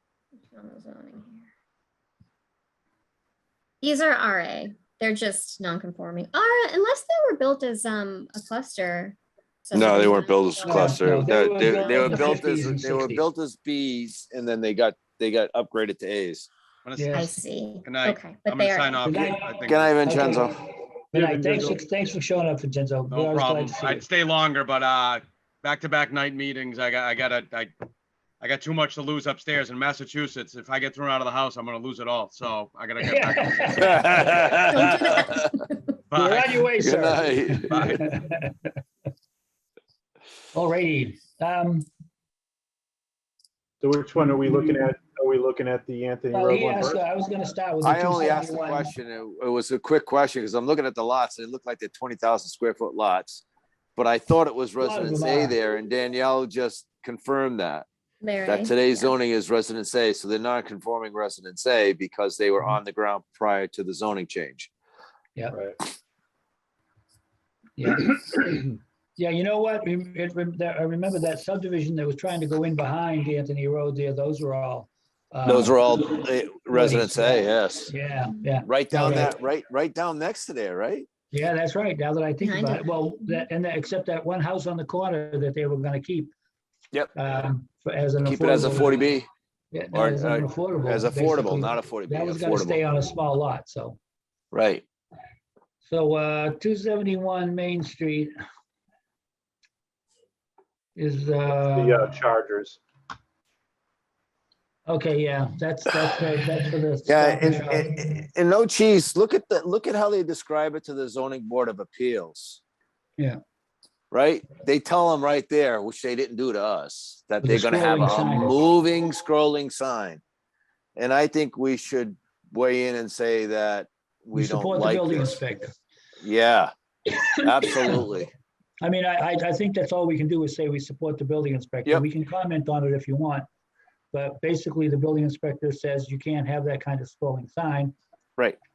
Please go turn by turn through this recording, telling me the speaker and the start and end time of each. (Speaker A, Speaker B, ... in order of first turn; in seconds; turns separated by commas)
Speaker A: 0.4-1.5, Speaker A: 3.8-12.4, Speaker B: 9.7-16.5, Speaker C: 10.7-13.2, Speaker D: 16.9-17.3, Speaker C: 17.0-17.3, Speaker A: 17.1-19.1, Speaker D: 17.9-20.2, Speaker C: 19.0-20.6, Speaker B: 19.7-20.6, Speaker C: 21.1-24.1, Speaker D: 21.1-21.6, Speaker E: 21.4-21.8, Speaker D: 23.1-27.7, Speaker D: 28.4-34.1, Speaker C: 33.0-34.6, Speaker B: 33.8-35.5, Speaker A: 34.6-35.9, Speaker D: 36.1-36.5, Speaker C: 36.1-38.8, Speaker B: 36.8-38.0, Speaker D: 37.7-38.0, Speaker C: 40.5-41.9, Speaker E: 43.8-47.0, Speaker C: 44.2-44.8, Speaker C: 46.3-48.9, Speaker B: 47.8-53.5, Speaker B: 54.0-57.9, Speaker C: 54.8-55.5, Speaker A: 58.2-59.1, Speaker B: 58.5-64.7, Speaker C: 67.8-76.2, Speaker B: 75.5-77.9, Speaker C: 76.7-79.3, Speaker B: 78.6-81.1, Speaker C: 81.3-86.3, Speaker A: 82.4-83.4, Speaker C: 87.2-89.0, Speaker B: 88.2-89.3, Speaker C: 89.7-94.0, Speaker B: 89.9-92.8, Speaker B: 94.5-94.8, Speaker C: 95.8-98.3, Speaker C: 101.0-102.1, Speaker E: 101.7-102.8, Speaker C: 104.9-108.0, Speaker B: 107.0-112.6, Speaker B: 114.1-120.2, Speaker C: 117.4-118.6, Speaker B: 121.0-125.3, Speaker C: 124.3-125.7, Speaker B: 126.2-126.7, Speaker C: 127.1-128.0, Speaker B: 127.5-128.3, Speaker C: 128.8-133.5, Speaker C: 134.1-137.9